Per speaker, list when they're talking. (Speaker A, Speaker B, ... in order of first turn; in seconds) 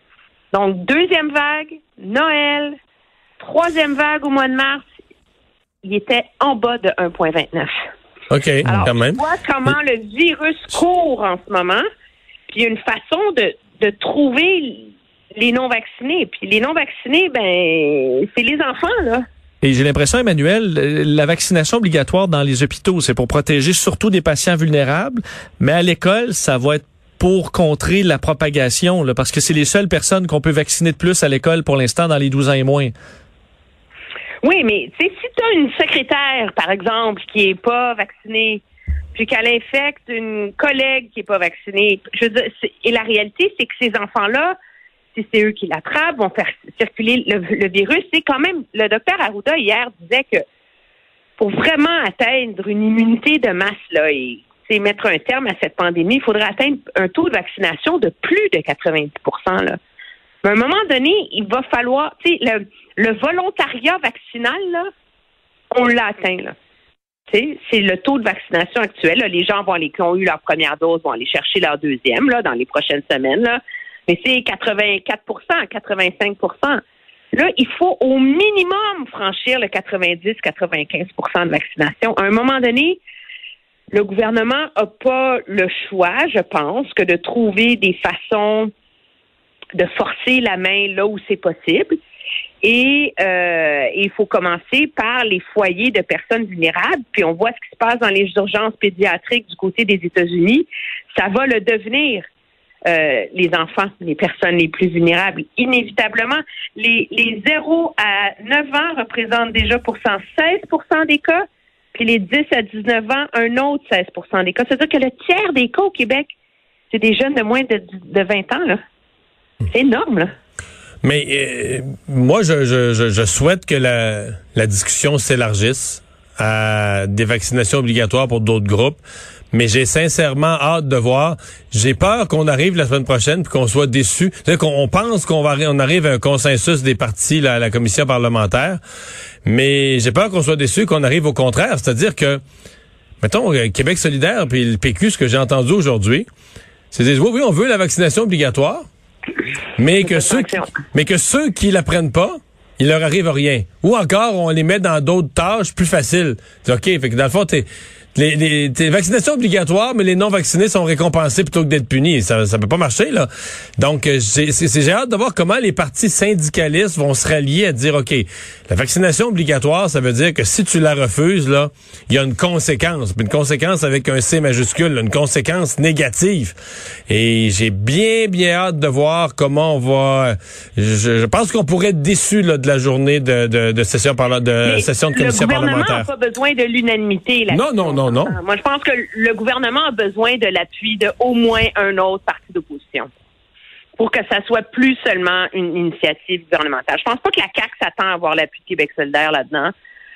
Speaker A: 0.5-2.8, 3.4-4.8, 5.8-7.7, 8.7-11.8, 12.5-19.2, 34.4-38.6, 39.1-44.5, 45.1-50.4, 51.4-59.8, 60.4-64.9, 65.7-66.5, 67.3-76.8, 77.3-83.0, 83.9-88.7, 89.8-92.0, 92.6-102.2, 102.9-116.3, 116.9-118.8, 119.7-120.3, 150.0-150.7, 184.6-193.1, 194.0-199.7
Speaker B: 8.3-9.2, 121.0-129.0, 129.5-138.8, 139.4-142.4, 143.2-146.3, 146.9-148.9, 149.8-176.6, 177.1-186.1, 187.5-188.4
Speaker C: 19.6-32.9